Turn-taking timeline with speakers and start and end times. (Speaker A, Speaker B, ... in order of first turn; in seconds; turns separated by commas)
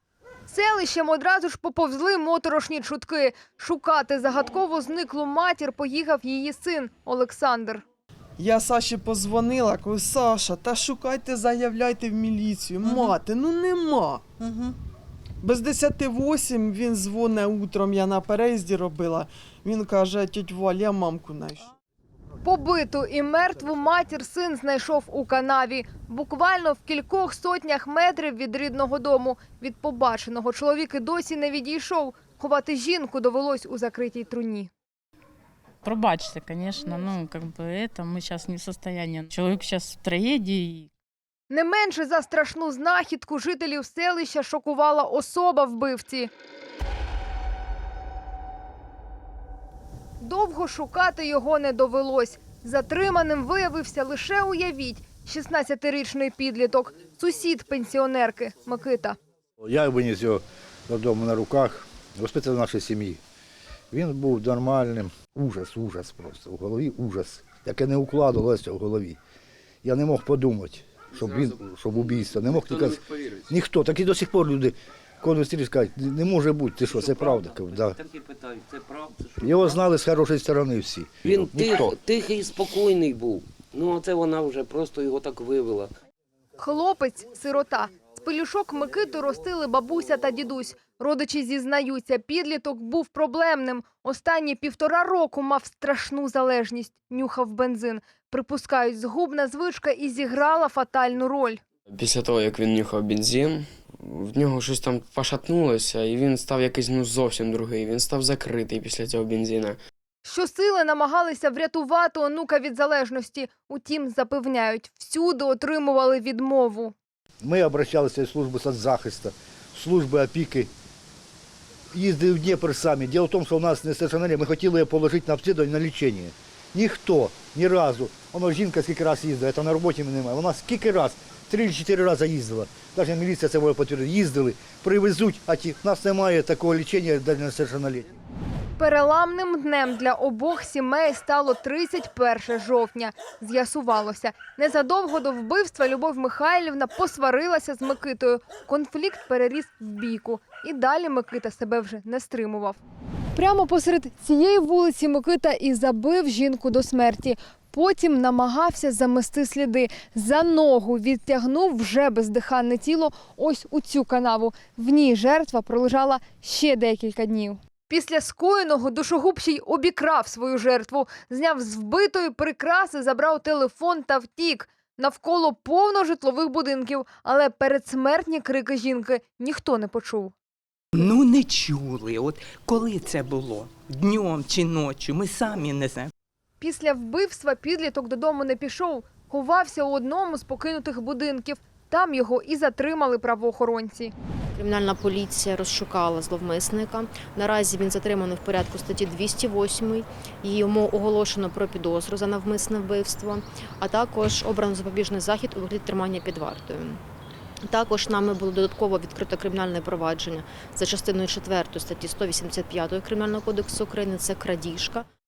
Speaker A: 0.5-7.8, Speaker B: 8.4-14.2, Speaker C: 12.9-13.1, Speaker B: 15.4-21.7, Speaker A: 22.4-34.7, Speaker D: 35.8-40.9, Speaker A: 41.5-46.3, Speaker A: 50.2-59.2, Speaker E: 59.6-63.2, Speaker E: 63.9-69.2, Speaker E: 69.8-78.0, Speaker F: 71.2-73.5, Speaker F: 76.8-79.8, Speaker E: 79.4-82.0, Speaker F: 81.2-85.9, Speaker A: 86.6-101.6, Speaker G: 101.9-109.8, Speaker A: 110.2-117.0, Speaker E: 117.4-120.7, Speaker E: 121.9-138.1, Speaker A: 138.8-152.8, Speaker A: 153.4-180.3, Speaker C: 180.9-186.1, Speaker A: 186.6-194.1, Speaker H: 194.6-207.0, Speaker H: 207.7-215.1